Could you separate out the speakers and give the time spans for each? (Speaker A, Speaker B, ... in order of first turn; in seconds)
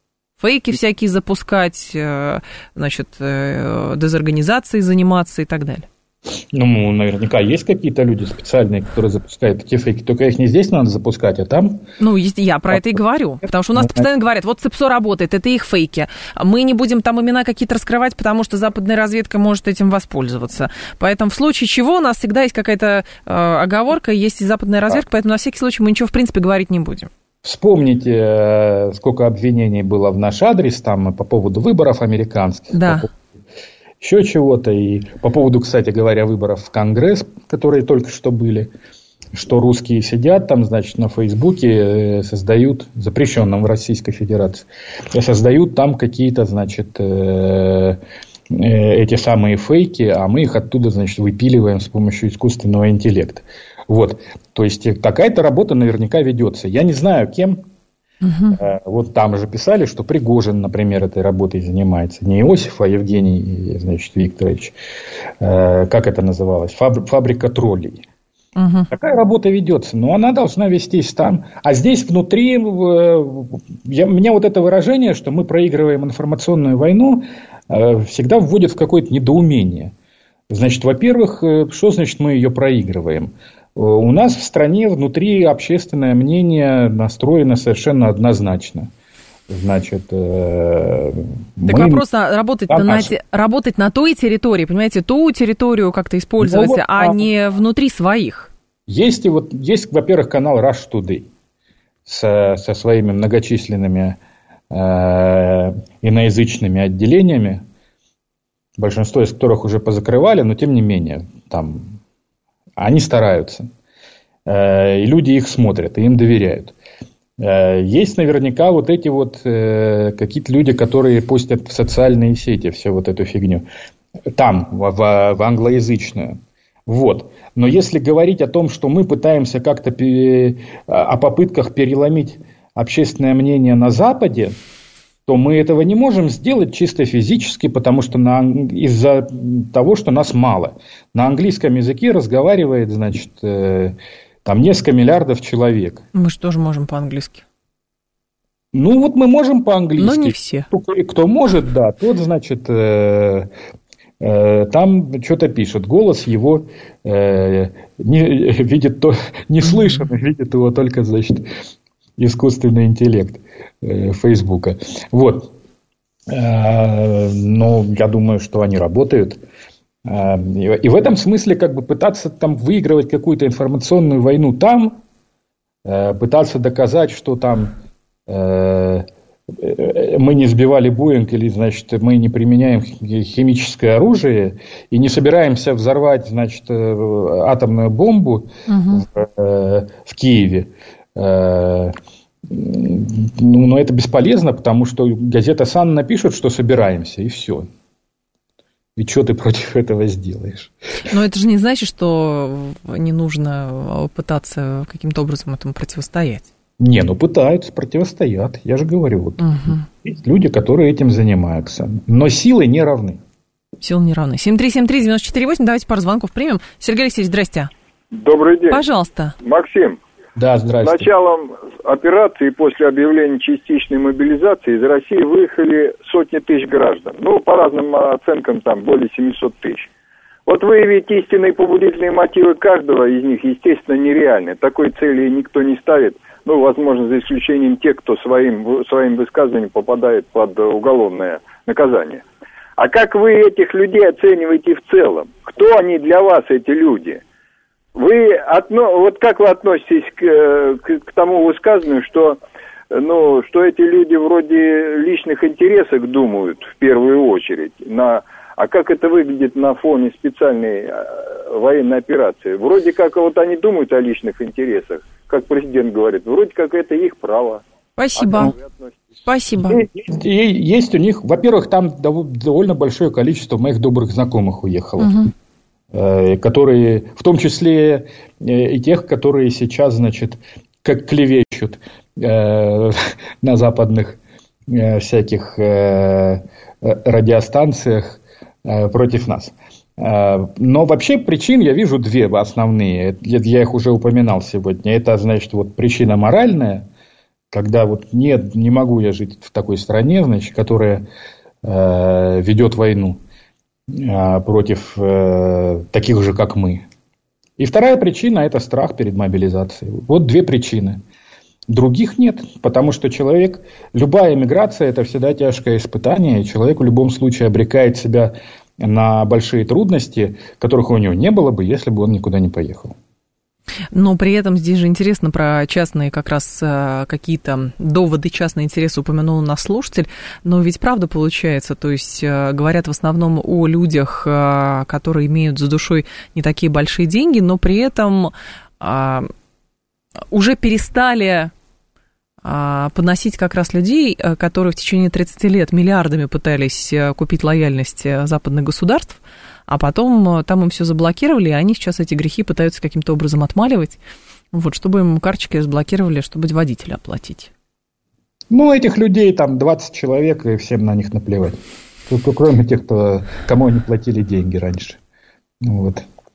Speaker A: 0.4-5.9, 12.0-27.1, 32.7-33.1, 58.2-58.6, 68.6-68.9, 91.7-98.5, 146.1-147.4, 150.0-150.7, 188.7-189.1, 201.1-206.5, 209.4-209.9, 213.8-217.7, 218.7-219.3, 268.0-268.5, 269.2-269.8, 275.0-275.3, 323.9-339.3, 340.3-341.5, 342.4-354.0, 354.5-357.5
Speaker B: 6.5-11.9, 12.7-13.0, 13.8-14.1, 27.4-33.2, 34.0-38.7, 39.3-48.0, 48.5-57.6, 58.5-64.8, 65.4-68.0, 68.9-79.9, 80.5-88.9, 89.5-92.0, 92.7-93.1, 96.4-97.2, 98.9-101.3, 102.1-104.2, 104.7-107.6, 108.8-112.0, 112.8-113.7, 114.5-116.8, 117.4-123.7, 124.3-134.6, 135.3-146.0, 148.7-153.5, 154.2-161.5, 162.2-165.5, 166.3-169.4, 170.1-175.0, 175.8-191.9, 192.4-197.7, 199.0-201.1, 206.8-213.2, 220.4-221.1, 269.6-275.1, 275.9-296.9, 297.5-301.1, 301.6-303.2, 303.9-306.9, 307.6-311.0, 311.7-323.0, 358.5-365.0, 365.6-366.1
Speaker C: 218.1-218.8, 219.4-220.0, 220.8-229.9, 230.5-242.2, 242.8-247.2, 247.9-252.4, 252.9-267.6, 268.2-269.0